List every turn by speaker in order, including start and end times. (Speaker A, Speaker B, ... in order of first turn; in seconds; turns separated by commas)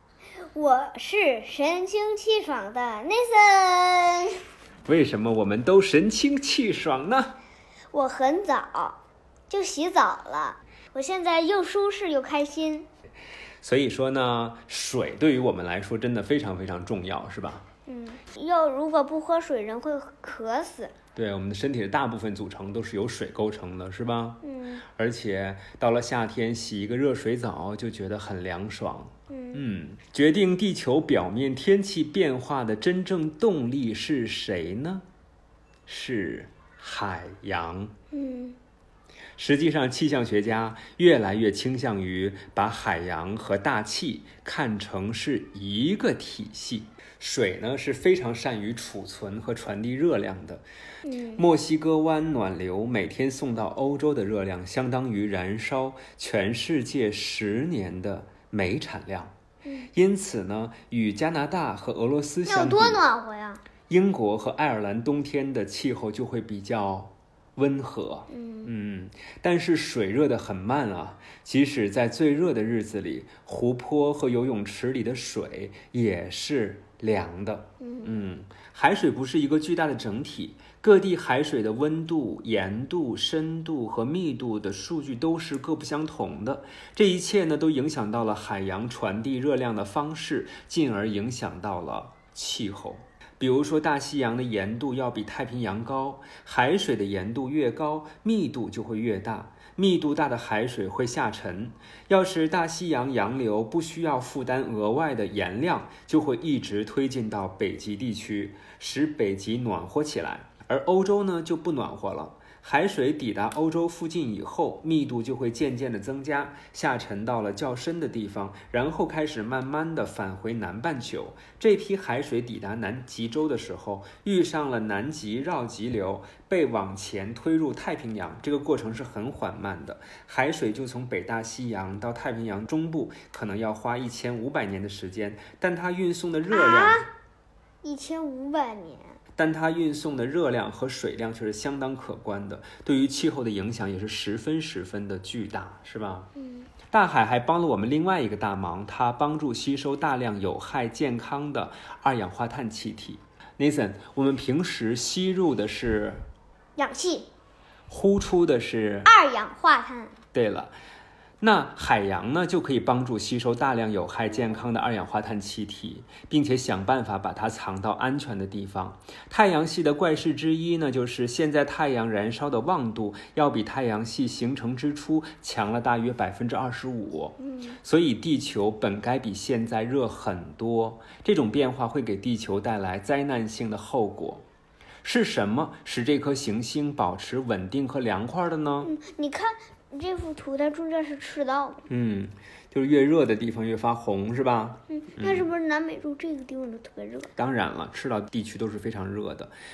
Speaker A: 0.5-4.4, Speaker B: 4.8-7.3, Speaker A: 7.9-9.0, Speaker A: 9.5-12.9, Speaker B: 13.6-17.6, Speaker A: 17.9-20.9, Speaker B: 21.1-35.0, Speaker A: 24.4-24.8, Speaker A: 29.3-29.6, Speaker B: 35.9-37.9, Speaker A: 38.1-38.6, Speaker B: 39.4-50.6, Speaker A: 51.0-51.4, Speaker B: 51.3-59.3, Speaker A: 59.6-59.9, Speaker B: 59.9-63.0, Speaker A: 62.5-63.6, Speaker B: 63.9-137.1, Speaker A: 68.3-68.7, Speaker A: 77.8-78.1, Speaker A: 136.5-137.1, Speaker A: 137.8-139.2, Speaker B: 139.4-146.3, Speaker A: 146.4-146.7, Speaker B: 146.9-156.2, Speaker A: 156.8-157.3, Speaker B: 157.9-159.1, Speaker A: 159.1-160.2, Speaker B: 160.3-160.7, Speaker B: 161.4-184.4, Speaker A: 177.4-177.8, Speaker B: 185.0-188.9, Speaker A: 188.8-191.8, Speaker B: 191.9-195.5, Speaker A: 194.9-197.3, Speaker B: 197.4-199.5